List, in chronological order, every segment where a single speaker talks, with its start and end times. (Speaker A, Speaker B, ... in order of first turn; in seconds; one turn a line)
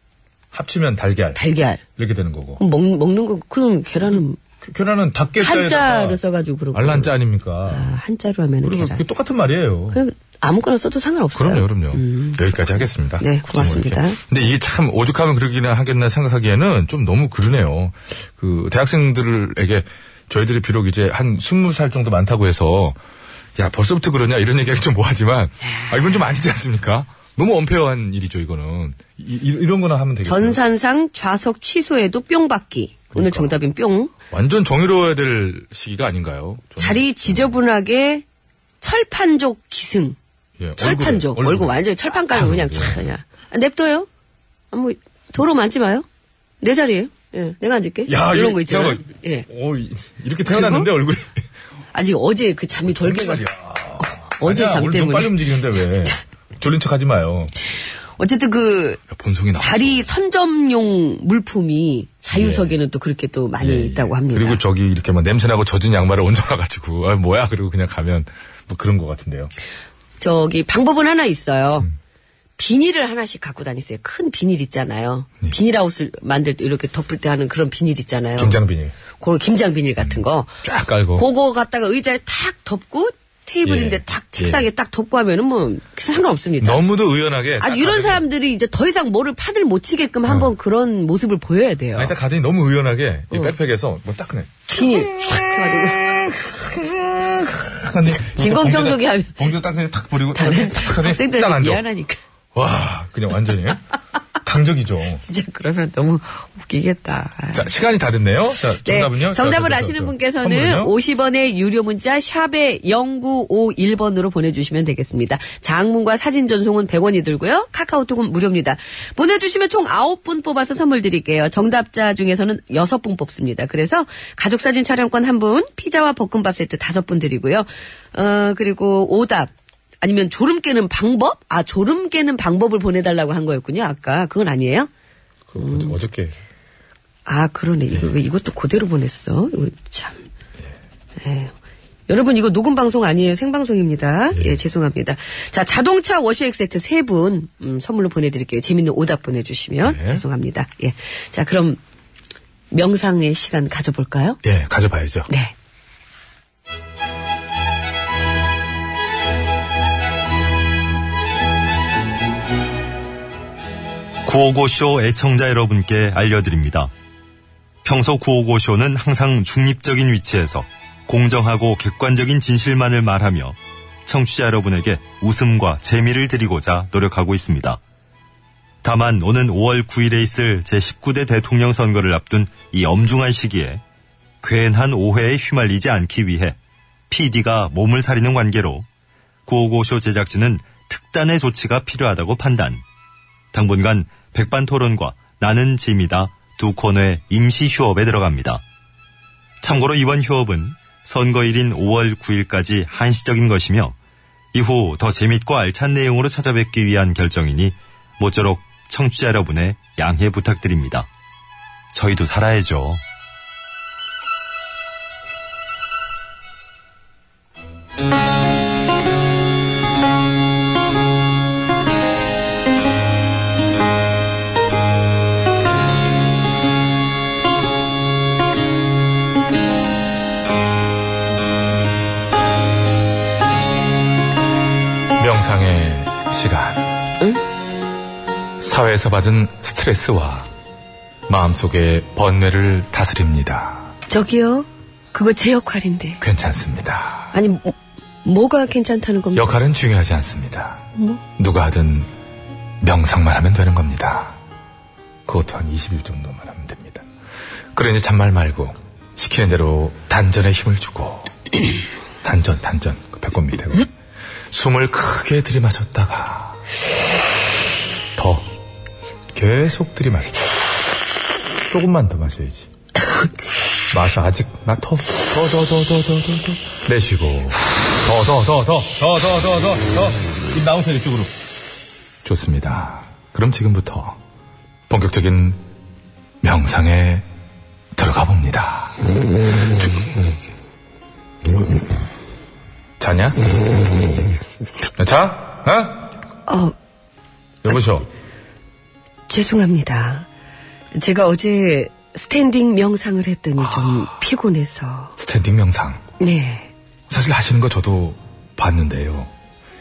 Speaker A: 0.5-1.4
Speaker B: 1.3-1.8
Speaker A: 2.0-2.6
Speaker B: 2.6-4.4
Speaker A: 4.6-6.2
Speaker B: 5.4-7.1
Speaker A: 6.7-7.9
Speaker B: 7.7-9.0
Speaker A: 8.6-10.0
Speaker B: 9.9-12.4
Speaker A: 11.3-23.0
Speaker B: 13.2-14.2
Speaker A: 23.6-30.6
Speaker B: 30.2-34.1
Speaker A: 33.1-33.6
Speaker A: 34.3-37.5
Speaker B: 36.8-38.2
Speaker B: 38.8-40.2
Speaker A: 40.6-43.0
Speaker B: 40.8-44.1
Speaker B: 44.7-46.0
Speaker B: 46.6-49.5
Speaker A: 48.0-51.4
Speaker B: 50.5-50.9
Speaker B: 51.9-53.5
Speaker A: 52.9-57.5
Speaker B: 54.0-55.5
Speaker B: 58.2-59.0
Speaker A: 59.1-60.1
Speaker B: 59.5-64.6
Speaker A: 62.3-62.8
Speaker A: 63.6-69.5
Speaker B: 70.2-71.9
Speaker B: 72.6-78.6
Speaker A: 78.3-78.9
Speaker B: 79.2-80.5
Speaker A: 80.0-81.3
Speaker B: 81.2-86.8
Speaker A: 83.6-84.6
Speaker A: 86.6-88.2
Speaker B: 87.6-92.1
Speaker A: 90.2-90.5
Speaker A: 91.9-101.8
Speaker B: 93.3-93.5
Speaker B: 94.7-96.1
Speaker B: 98.1-99.3
Speaker B: 100.3-102.2
Speaker A: 102.5-103.8
Speaker A: 104.4-105.2
Speaker B: 105.2-107.7
Speaker A: 107.5-110.9
Speaker B: 108.8-129.5
Speaker B: 130.0-134.9
Speaker A: 135.5-136.4
Speaker B: 135.6-136.0
Speaker B: 137.2-140.2
Speaker B: 141.2-141.5
Speaker B: 142.1-151.8
Speaker A: 144.3-144.6
Speaker A: 149.8-150.2
Speaker B: 152.7-154.4
Speaker A: 154.4-155.3
Speaker B: 155.3-155.5
Speaker C: 164.2-166.9
Speaker C: 167.8-177.8
Speaker C: 178.8-183.8
Speaker C: 184.4-186.6
Speaker C: 187.1-188.9
Speaker C: 189.5-192.8
Speaker C: 193.5-198.6
Speaker C: 199.6-203.9
Speaker C: 204.5-211.1
Speaker C: 211.9-213.0
Speaker A: 235.2-236.8
Speaker A: 238.6-240.5
Speaker A: 241.3-243.9
Speaker B: 244.1-246.2
Speaker A: 246.2-247.3
Speaker B: 247.3-249.5
Speaker A: 249.3-250.8
Speaker A: 251.4-252.1
Speaker A: 252.8-254.4
Speaker A: 255.2-257.0
Speaker A: 257.7-261.3
Speaker A: 262.2-263.9
Speaker A: 264.5-266.6
Speaker A: 268.1-268.5
Speaker A: 269.3-270.4
Speaker A: 271.7-272.7
Speaker A: 273.9-281.3
Speaker A: 282.2-284.2
Speaker A: 284.9-285.6
Speaker A: 286.4-287.2
Speaker A: 287.9-289.0
Speaker A: 289.7-290.1
Speaker A: 293.0-293.4
Speaker A: 295.0-296.1
Speaker B: 296.5-296.7
Speaker A: 297.6-298.1
Speaker B: 299.3-300.2
Speaker B: 300.9-305.1
Speaker A: 303.6-304.1
Speaker A: 305.2-306.0
Speaker B: 306.2-306.7
Speaker A: 307.1-309.3